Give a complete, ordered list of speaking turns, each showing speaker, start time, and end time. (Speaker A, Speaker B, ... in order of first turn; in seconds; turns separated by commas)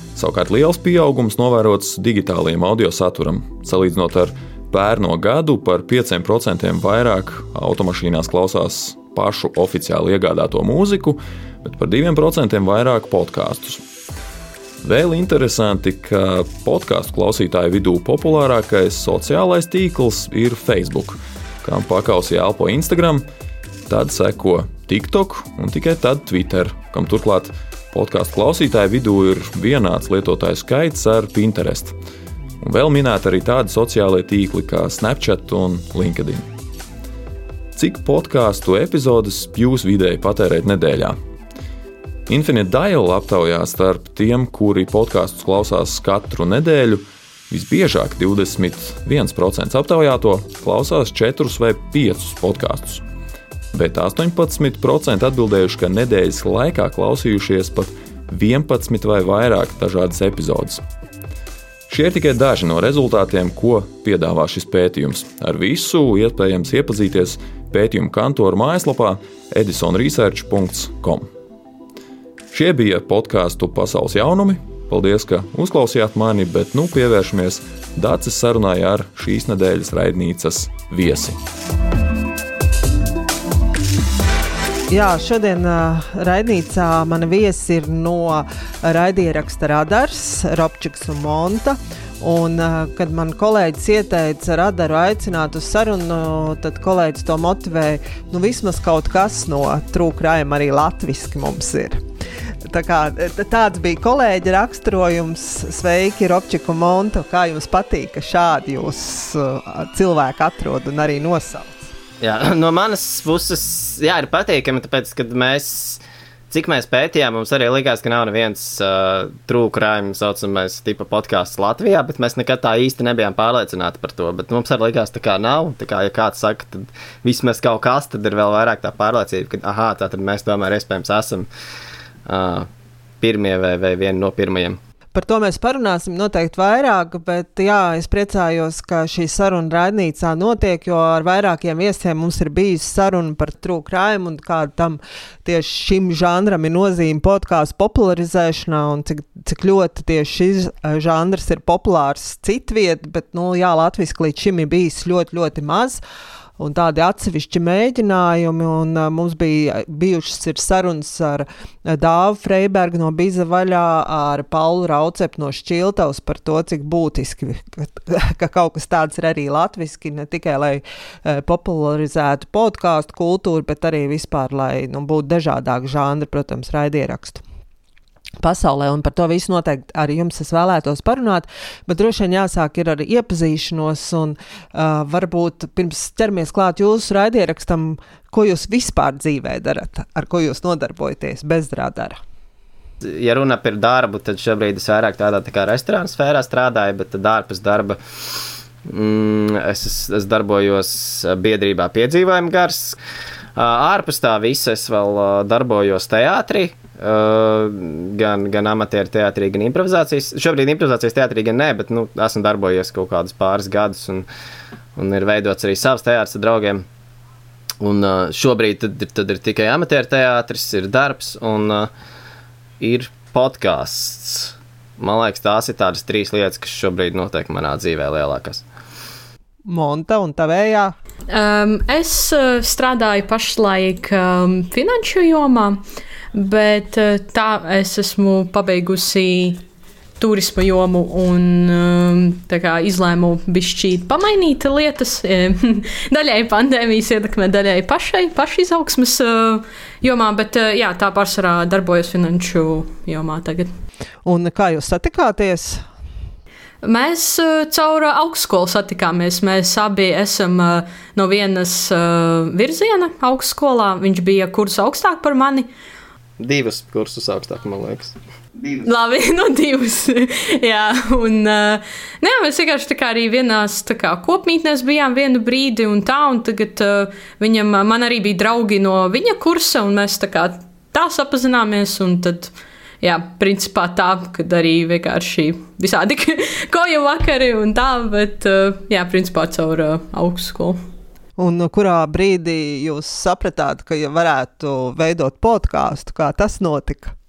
Speaker A: 0.1-13.8, Speaker A: 14.8-23.2, Speaker A: 23.9-31.9, Speaker A: 32.6-36.5, Speaker A: 37.7-41.1, Speaker A: 42.3-53.0, Speaker A: 53.7-60.8, Speaker A: 61.9-71.3, Speaker A: 72.5-81.4, Speaker B: 84.9-102.0, Speaker B: 102.7-111.9, Speaker C: 112.2-131.5, Speaker C: 132.2-132.7, Speaker C: 133.2-134.8, Speaker B: 135.1-156.0, Speaker B: 156.6-177.4, Speaker B: 178.4-192.2, Speaker C: 193.0-198.0, Speaker C: 198.8-203.0, Speaker C: 203.6-214.3, Speaker C: 214.9-216.8, Speaker C: 217.8-221.9, Speaker C: 222.8-228.6, Speaker B: 229.7-230.9, Speaker D: 231.3-235.8, Speaker D: 236.3-239.6, Speaker D: 240.2-253.7, Speaker B: 254.2-255.8, Speaker D: 256.8-265.7, Speaker C: 266.4-268.1, Speaker D: 268.7-290.8, Speaker B: 291.4-297.1